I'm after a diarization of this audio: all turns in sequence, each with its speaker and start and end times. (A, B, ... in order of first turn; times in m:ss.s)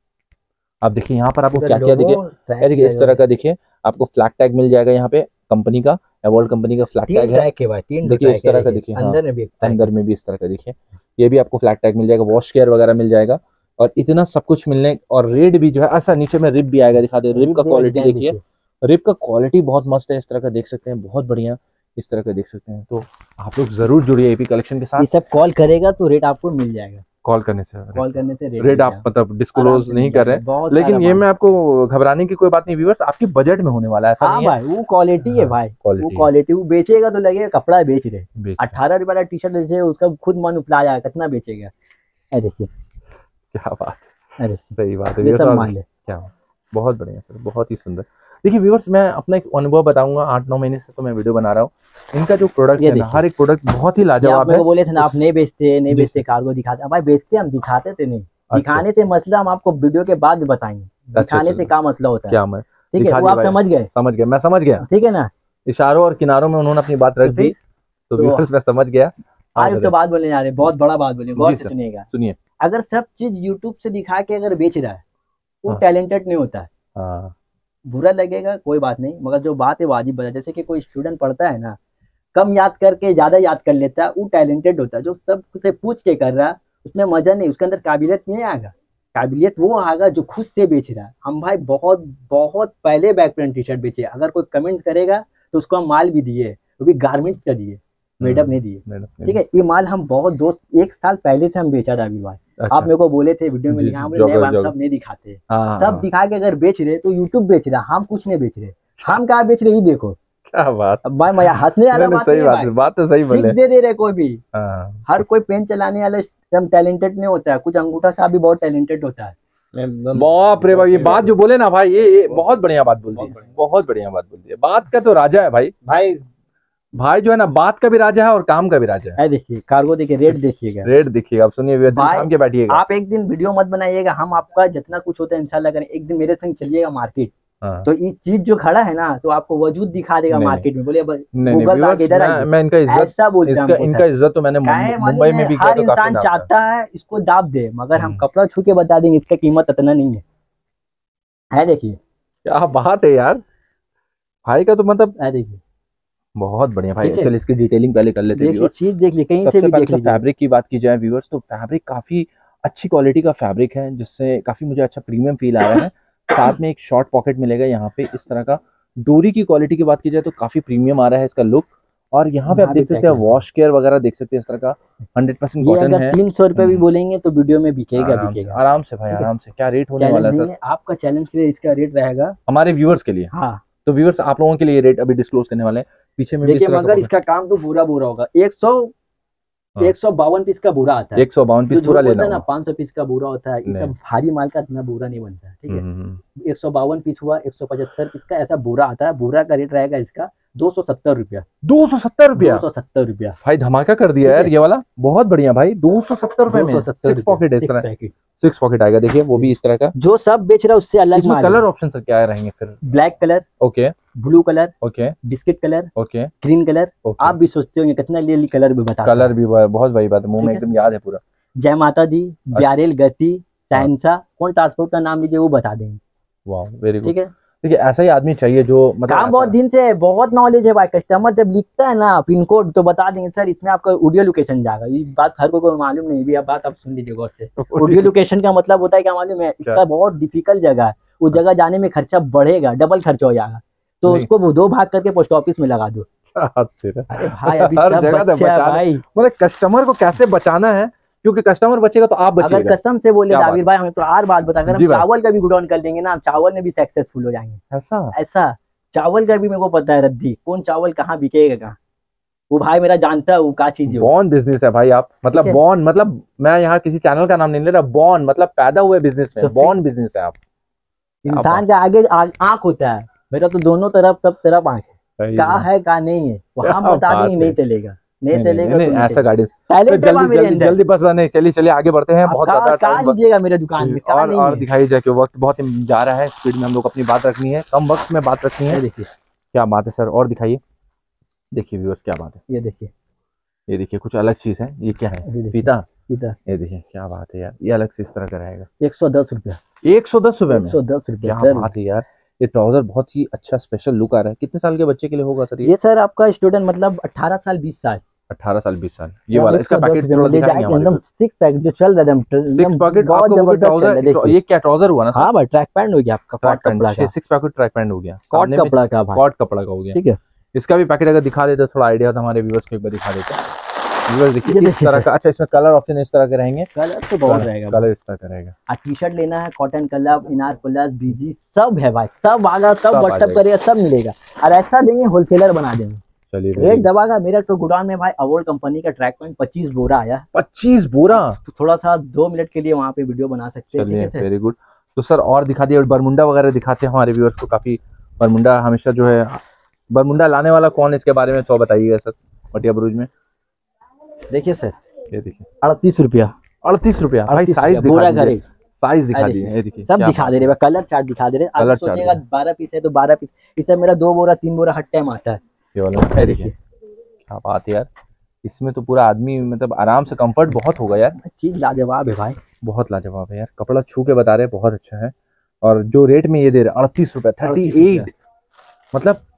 0:00.8-0:07.5 A
0:01.5-0:03.2 B
0:07.1-0:09.9 B
0:08.0-0:25.1 A
0:17.3-0:18.4 B
0:25.0-0:27.0 B
0:27.2-0:34.6 A
0:28.0-0:31.3 B
0:34.2-0:41.7 B
0:35.2-0:36.3 A
0:38.4-0:38.8 A
0:42.3-0:42.7 B
0:43.5-0:44.1 A
0:44.4-0:45.8 B
0:44.8-0:55.3 A
0:52.8-0:53.2 B
0:54.2-1:02.4 B
0:55.9-0:56.2 A
0:58.5-0:58.9 A
1:01.2-1:01.7 A
1:02.3-1:04.8 A
1:02.9-1:03.9 B
1:04.8-1:05.3 B
1:05.7-1:07.5 A
1:07.2-1:07.6 B
1:08.1-1:09.9 A
1:08.2-1:08.4 B
1:09.6-1:12.1 B
1:11.4-1:12.4 A
1:12.6-1:15.0 B
1:15.6-1:16.7 B
1:17.0-1:17.3 A
1:17.9-1:21.8 B
1:22.4-1:50.2 B
1:38.2-1:39.4 A
1:42.6-1:42.9 A
1:43.7-1:44.7 A
1:45.5-1:46.1 A
1:50.5-1:53.6 A
1:51.0-1:52.7 B
1:53.3-1:54.4 B
1:54.5-1:55.2 A
1:55.1-1:59.4 B
1:59.7-2:01.3 C
2:00.1-2:05.7 A
2:05.8-2:06.2 C
2:07.0-2:09.2 A
2:09.2-2:10.9 B
2:10.8-2:12.8 A
2:11.9-2:17.3 B
2:17.6-2:17.9 A
2:17.8-2:24.1 B
2:20.3-2:20.7 A
2:21.4-2:26.5 A
2:24.6-2:30.2 B
2:28.0-2:28.2 A
2:31.5-2:32.0 B
2:32.4-2:33.4 A
2:34.5-2:35.2 A
2:35.2-2:35.6 B
2:36.4-2:38.7 A
2:37.0-2:37.3 B
2:38.3-2:40.2 B
2:39.4-2:56.8 A
2:52.5-2:53.4 B
2:55.6-2:58.6 B
2:58.0-3:00.5 A
3:00.0-3:02.4 B
3:02.5-3:03.3 A
3:03.3-3:03.6 B
3:03.8-3:07.1 A
3:06.4-3:08.9 B
3:09.8-3:15.8 B
3:11.2-3:12.4 A
3:13.7-3:13.9 A
3:15.7-3:16.2 A
3:16.4-3:21.5 B
3:21.6-3:22.6 A
3:22.4-3:23.4 B
3:23.4-3:27.8 A
3:24.2-3:24.5 B
3:26.5-3:28.2 B
3:28.4-3:29.9 A
3:29.4-3:31.6 B
3:31.1-3:32.8 A
3:32.8-3:33.4 B
3:33.6-3:34.0 A
3:34.2-3:39.3 B
3:34.8-3:35.2 A
3:36.0-3:36.3 A
3:37.0-3:37.4 A
3:39.0-3:41.2 A
3:40.4-3:40.7 B
3:41.6-3:46.0 B
3:46.5-3:49.6 A
3:47.0-3:47.3 B
3:49.1-4:06.1 B
3:57.6-3:58.1 A
4:06.3-4:12.8 A
4:07.1-4:09.0 B
4:12.4-4:17.6 B
4:13.3-4:13.6 A
4:14.7-4:15.0 A
4:17.7-4:18.2 A
4:18.1-4:21.8 B
4:22.5-4:24.1 B
4:23.9-4:30.4 A
4:25.3-4:25.6 B
4:29.4-4:29.8 B
4:31.2-4:40.8 B
4:31.3-4:31.6 A
4:35.2-4:35.7 A
4:36.6-4:37.6 A
4:38.3-4:43.2 A
4:42.2-4:44.7 B
4:43.8-4:48.8 A
4:48.7-4:49.1 B
4:49.5-4:50.6 A
4:51.5-4:52.4 A
4:52.5-4:52.9 B
4:53.7-4:55.9 A
4:55.2-4:56.4 B
4:56.5-4:58.7 A
4:58.8-4:59.6 B
4:59.8-5:05.7 A
5:00.5-5:01.7 B
5:05.6-5:08.0 B
5:08.3-5:11.0 A
5:09.3-5:14.4 B
5:12.5-5:15.3 A
5:15.1-5:17.1 B
5:16.4-5:20.0 A
5:18.3-5:19.2 B
5:19.9-5:20.2 B
5:20.5-5:23.4 A
5:24.1-5:26.7 A
5:24.4-5:25.1 B
5:26.8-5:27.8 B
5:27.3-5:28.5 A
5:28.7-5:36.0 B
5:32.9-5:33.4 A
5:36.3-5:36.9 A
5:36.6-5:40.3 B
5:40.3-5:41.4 A
5:41.4-5:44.3 B
5:43.8-5:53.1 A
5:54.3-5:54.8 B
5:55.1-5:55.6 A
5:55.6-5:56.3 B
5:56.6-6:00.5 A
5:57.3-5:58.4 B
5:59.1-6:05.4 B
6:01.6-6:02.2 A
6:05.8-6:06.5 A
6:06.1-6:06.6 B
6:07.3-6:07.9 A
6:08.4-6:11.2 A
6:11.2-6:12.4 B
6:12.6-6:18.1 A
6:17.4-6:18.1 B
6:18.9-6:19.2 A